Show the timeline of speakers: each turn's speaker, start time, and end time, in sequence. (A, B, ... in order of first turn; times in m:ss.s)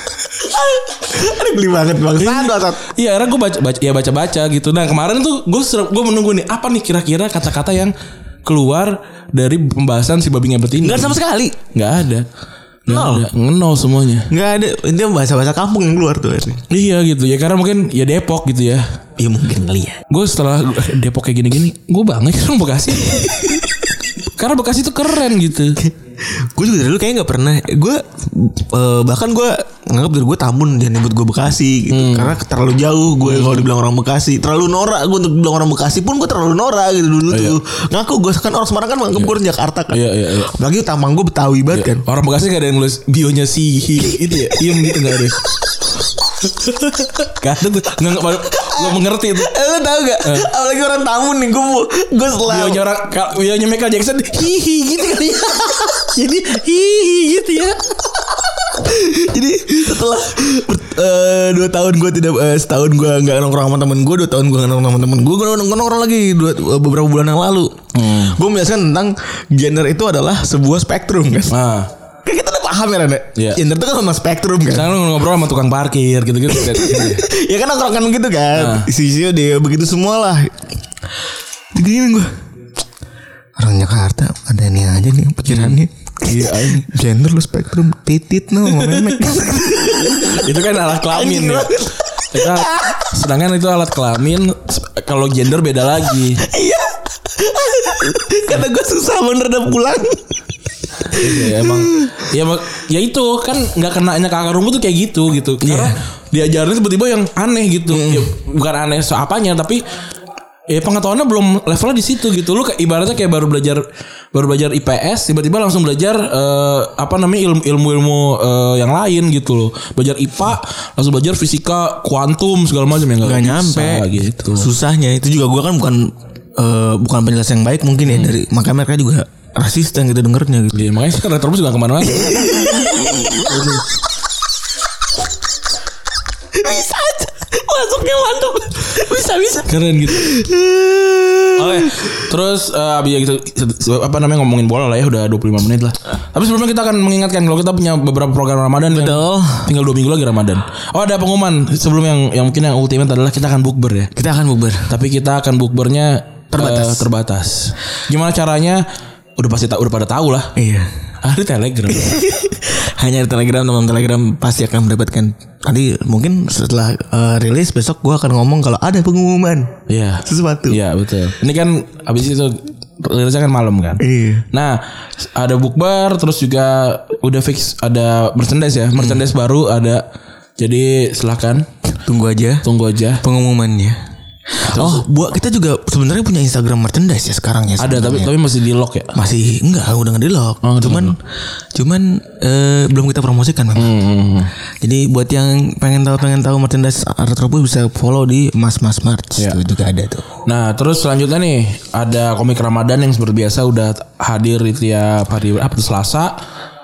0:00.4-0:02.8 A
0:02.2-0:07.9 B
0:08.4-0:11.2 B
0:10.8-0:11.6 A
0:11.7-0:12.3 B
0:12.8-0:14.3 B
0:12.9-0:13.3 A
0:14.3-0:16.6 A
0:16.7-0:18.8 B
0:19.2-0:20.0 A
0:20.1-0:23.6 B
0:24.4-0:25.8 B
0:25.8-0:42.0 A
0:31.9-0:32.4 B
0:33.2-0:33.6 B
0:37.3-0:37.6 B
0:39.9-0:40.5 B
0:41.7-0:45.4 B
0:44.0-0:45.4 A
0:46.6-0:49.6 B
0:48.6-0:52.8 A
0:50.2-0:50.5 B
0:52.4-0:57.9 B
0:58.4-1:11.6 A
1:07.9-1:08.4 B
1:11.5-1:11.9 B
1:12.2-1:14.9 A
1:14.7-1:17.2 B
1:16.5-1:20.7 A
1:18.5-1:18.9 B
1:21.7-1:22.3 A
1:23.6-1:30.5 A
1:25.5-1:26.9 B
1:28.6-1:29.2 B
1:30.3-1:36.4 B
1:31.1-1:33.1 A
1:36.4-1:40.4 A
1:41.0-1:42.3 A
1:41.1-1:49.8 B
1:45.6-1:46.0 A
1:47.9-1:48.3 A
1:50.7-2:04.7 B
2:03.2-2:10.8 A
2:08.1-2:08.3 B
2:10.7-2:12.8 B
2:12.0-2:13.8 A
2:13.4-2:13.9 B
2:16.5-2:22.2 A
2:19.6-2:20.3 B
2:21.6-2:34.1 B
2:28.9-2:29.7 A
2:34.1-2:34.9 A
2:34.9-2:38.8 B
2:36.5-2:37.1 A
2:39.4-2:40.5 B
2:40.6-2:40.9 A
2:41.2-2:42.2 B
2:41.9-2:49.7 A
2:49.9-3:00.0 B
2:50.2-2:50.8 A
2:54.0-2:54.4 A
2:59.0-2:59.2 A
3:00.6-3:01.7 B
3:02.0-3:02.6 A
3:02.6-3:03.2 B
3:03.2-3:04.0 A
3:04.6-3:08.4 A
3:04.6-3:05.0 B
3:07.8-3:09.2 B
3:09.1-3:11.2 A
3:10.6-3:11.2 B
3:11.7-3:14.0 A
3:13.7-3:14.5 B
3:14.8-3:20.3 A
3:20.4-3:26.3 B